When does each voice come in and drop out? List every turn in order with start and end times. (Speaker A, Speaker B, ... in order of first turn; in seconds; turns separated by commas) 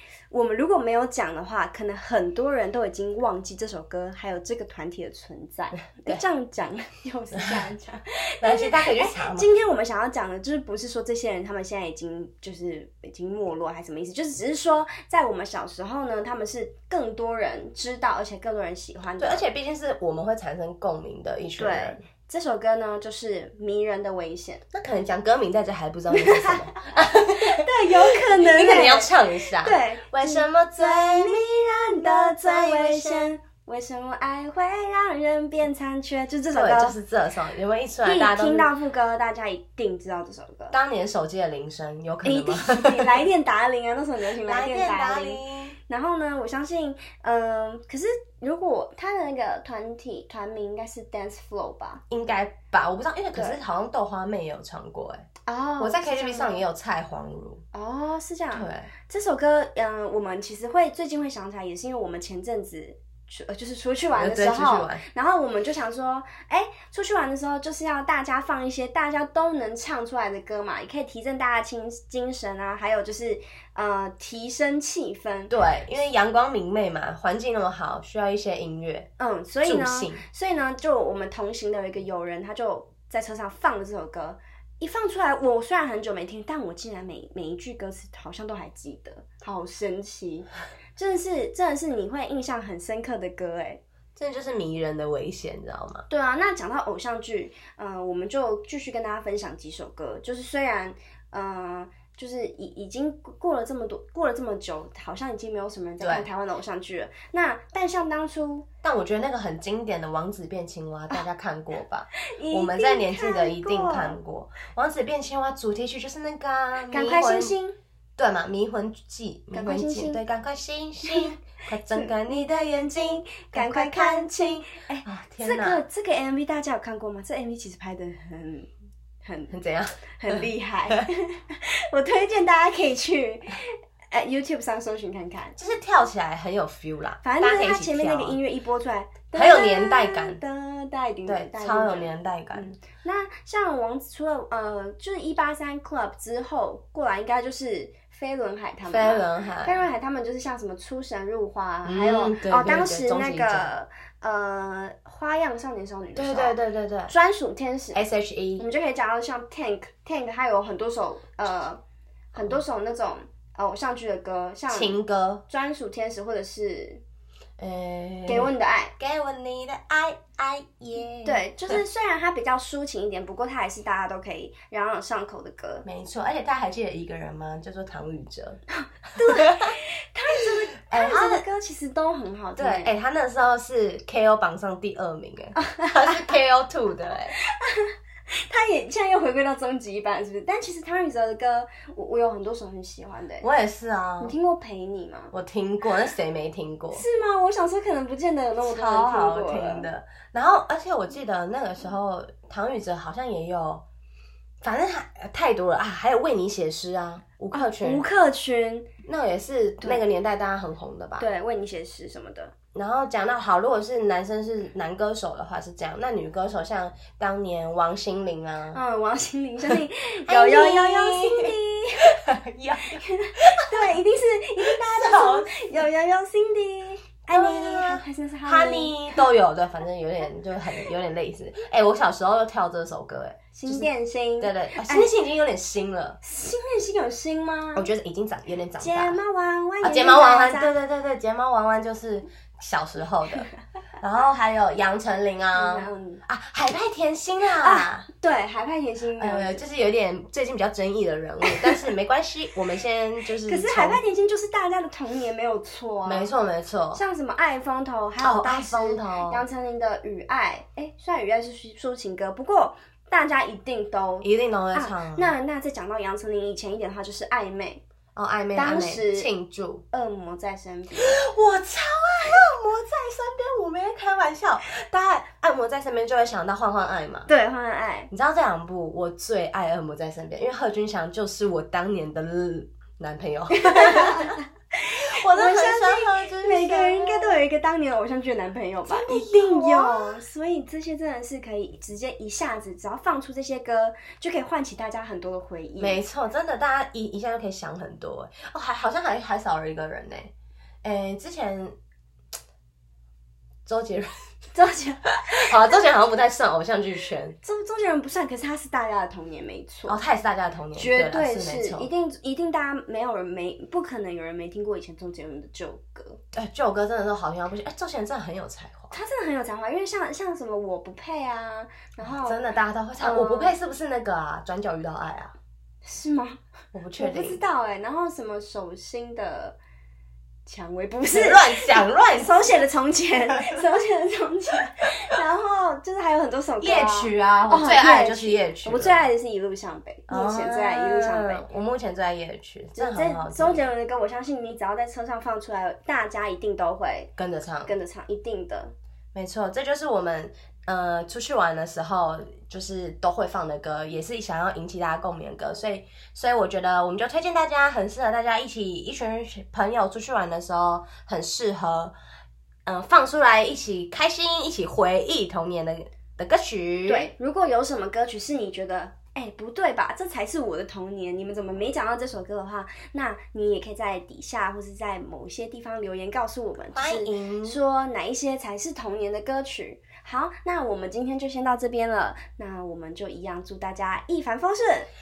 Speaker A: 0.3-19.4, Speaker B: 8.4-9.5, Speaker B: 19.2-22.0, Speaker A: 21.6-24.6, Speaker B: 24.7-33.3, Speaker A: 26.1-37.0, Speaker B: 36.5-38.7, Speaker A: 38.0-40.8, Speaker B: 40.7-43.2, Speaker A: 42.2-52.0, Speaker B: 44.4-45.8, Speaker B: 52.1-55.2, Speaker A: 55.5-56.6, Speaker B: 55.8-57.6, Speaker A: 57.7-75.5, Speaker B: 58.5-58.9, Speaker B: 64.1-65.0, Speaker B: 75.5-79.1, Speaker A: 79.2-93.8, Speaker B: 79.6-80.2, Speaker B: 94.2-96.0, Speaker A: 96.1-108.7, Speaker B: 106.0-106.3, Speaker B: 108.8-117.5, Speaker A: 112.3-114.2, Speaker A: 116.8-117.8, Speaker B: 118.2-125.8, Speaker A: 119.5-120.2, Speaker A: 121.0-128.7, Speaker A: 129.2-129.5, Speaker B: 129.5-131.0, Speaker A: 130.2-135.6, Speaker B: 135.6-138.4, Speaker A: 137.2-156.6, Speaker B: 139.3-140.4, Speaker B: 141.2-142.7, Speaker B: 148.9-149.8, Speaker B: 151.8-153.7, Speaker B: 156.2-157.1, Speaker A: 157.1-158.0, Speaker B: 157.9-158.7, Speaker A: 158.6-161.8, Speaker B: 162.3-162.6, Speaker A: 162.3-167.0, Speaker B: 164.7-165.4, Speaker B: 167.6-171.8, Speaker A: 168.3-168.9, Speaker A: 171.2-175.8, Speaker B: 175.8-178.6, Speaker A: 179.2-182.9, Speaker B: 179.2-179.7, Speaker B: 180.9-181.4, Speaker B: 182.6-187.3, Speaker A: 185.5-186.4, Speaker A: 187.3-193.5, Speaker B: 193.4-194.3, Speaker A: 194.2-195.3, Speaker B: 195.3-197.0, Speaker A: 196.9-199.9, Speaker B: 198.6-203.8, Speaker B: 204.6-208.0, Speaker A: 207.5-208.9, Speaker B: 209.0-211.3, Speaker A: 211.2-212.5, Speaker B: 212.7-218.8, Speaker A: 218.7-222.2, Speaker B: 219.7-224.0, Speaker A: 222.9-229.2, Speaker B: 224.6-225.7, Speaker B: 227.3-233.9, Speaker A: 233.5-235.1, Speaker B: 234.4-236.2, Speaker A: 236.2-237.9, Speaker B: 237.7-239.2, Speaker A: 238.8-240.7, Speaker B: 239.8-243.5, Speaker B: 244.0-248.1, Speaker A: 245.5-246.2, Speaker A: 247.6-249.7, Speaker B: 249.2-254.0, Speaker A: 251.5-251.8, Speaker A: 253.4-256.3, Speaker B: 256.0-257.0, Speaker A: 256.9-267.8, Speaker B: 258.2-259.4, Speaker B: 264.2-265.3, Speaker B: 268.1-269.8, Speaker A: 268.5-269.3, Speaker A: 269.9-271.2, Speaker B: 271.0-277.3, Speaker A: 277.3-278.1, Speaker B: 278.1-284.4, Speaker A: 283.5-296.0, Speaker B: 285.1-287.4, Speaker B: 288.9-290.2, Speaker B: 295.8-300.3, Speaker B: 300.8-301.7, Speaker B: 303.6-304.1, Speaker A: 304.5-305.8, Speaker B: 305.3-307.4, Speaker A: 307.4-310.0, Speaker B: 309.9-311.9, Speaker A: 310.7-316.2, Speaker B: 316.3-318.9, Speaker A: 318.9-322.5, Speaker B: 322.0-325.3, Speaker A: 323.0-323.6, Speaker A: 325.8-326.4, Speaker B: 326.7-327.4, Speaker A: 327.0-329.6, Speaker A: 330.4-341.4, Speaker B: 331.1-332.6, Speaker B: 333.3-333.6, Speaker B: 336.6-339.1, Speaker B: 340.1-343.7, Speaker A: 342.8-347.1, Speaker B: 347.2-347.7, Speaker A: 347.6-348.7, Speaker B: 349.1-361.9, Speaker B: 362.6-367.1, Speaker A: 366.9-384.9, Speaker B: 376.7-377.6